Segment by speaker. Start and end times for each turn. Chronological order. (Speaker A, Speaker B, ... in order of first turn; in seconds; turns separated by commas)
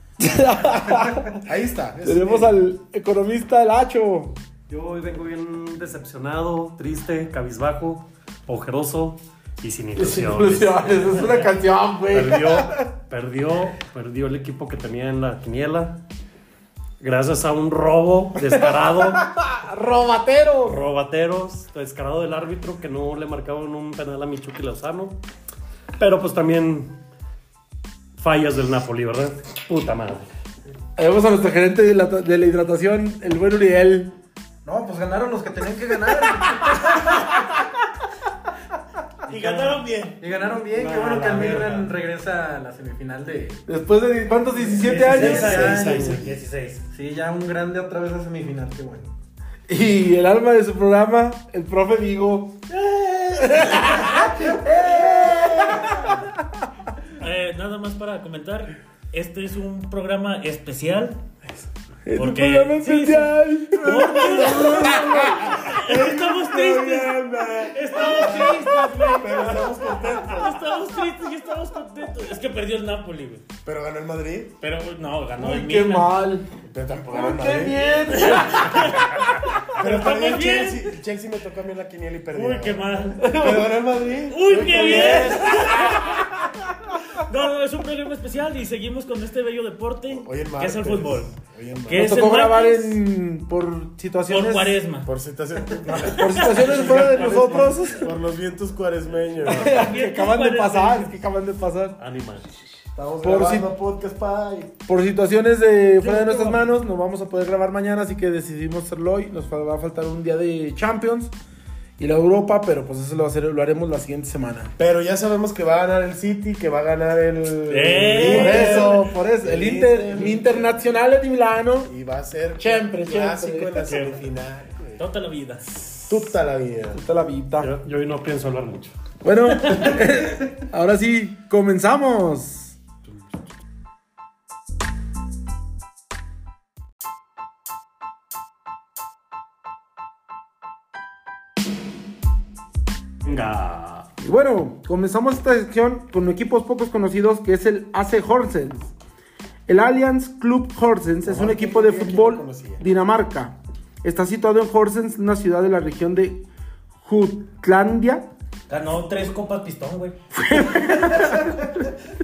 Speaker A: 0.2-1.4, Speaker B: 1.3-2.5, Speaker A: 2.0-4.3, Speaker C: 4.7-11.5, Speaker A: 9.9-12.9, Speaker C: 12.1-16.0, Speaker C: 17.0-19.3, Speaker A: 18.6-20.8, Speaker C: 20.6-25.2, Speaker C: 26.0-26.9, Speaker C: 28.2-30.3, Speaker A: 31.0-34.1, Speaker D: 34.6-37.2, Speaker A: 36.6-37.2, Speaker D: 39.3-43.6, Speaker E: 39.3-40.2, Speaker C: 40.7-41.9, Speaker A: 43.7-45.7, Speaker D: 44.6-46.2, Speaker E: 44.8-46.8, Speaker C: 44.9-46.3, Speaker D: 46.9-49.1, Speaker A: 49.7-52.6, Speaker D: 52.7-53.4, Speaker A: 53.3-56.4, Speaker D: 54.0-56.1, Speaker E: 57.2-61.2, Speaker A: 62.0-65.6, Speaker E: 62.1-73.4, Speaker B: 64.2-68.5, Speaker A: 68.1-69.2, Speaker B: 69.1-70.6, Speaker B: 73.6-74.5, Speaker E: 74.6-76.2, Speaker A: 75.4-76.5, Speaker B: 76.6-78.0, Speaker A: 77.1-79.5, Speaker E: 78.1-79.2, Speaker E: 79.7-80.8, Speaker B: 79.8-85.9, Speaker E: 82.3-83.3, Speaker A: 83.2-83.7, Speaker E: 84.3-86.3, Speaker A: 84.8-86.1, Speaker E: 87.1-91.3, Speaker B: 90.1-92.0, Speaker E: 91.8-93.0, Speaker A: 91.9-94.8, Speaker E: 94.3-95.1, Speaker B: 95.0-99.8, Speaker E: 95.8-97.5, Speaker A: 96.1-98.1, Speaker A: 99.5-102.0, Speaker E: 99.6-101.2, Speaker C: 102.0-102.5, Speaker B: 102.9-104.7, Speaker A: 103.2-103.7, Speaker A: 104.9-111.3, Speaker E: 106.0-106.6, Speaker A: 112.0-114.7, Speaker B: 114.8-120.8, Speaker E: 117.7-118.9, Speaker A: 118.1-121.9, Speaker B: 121.8-125.0, Speaker A: 122.6-123.9, Speaker E: 123.8-124.2, Speaker E: 125.0-125.6, Speaker B: 126.0-127.0, Speaker A: 126.9-127.7, Speaker C: 127.6-128.9, Speaker A: 129.2-132.8, Speaker E: 129.6-130.0, Speaker C: 143.2-144.1, Speaker A: 144.2-148.9, Speaker A: 149.7-156.4, Speaker B: 151.2-152.8, Speaker A: 157.0-158.2, Speaker E: 158.7-160.2, Speaker A: 160.3-161.7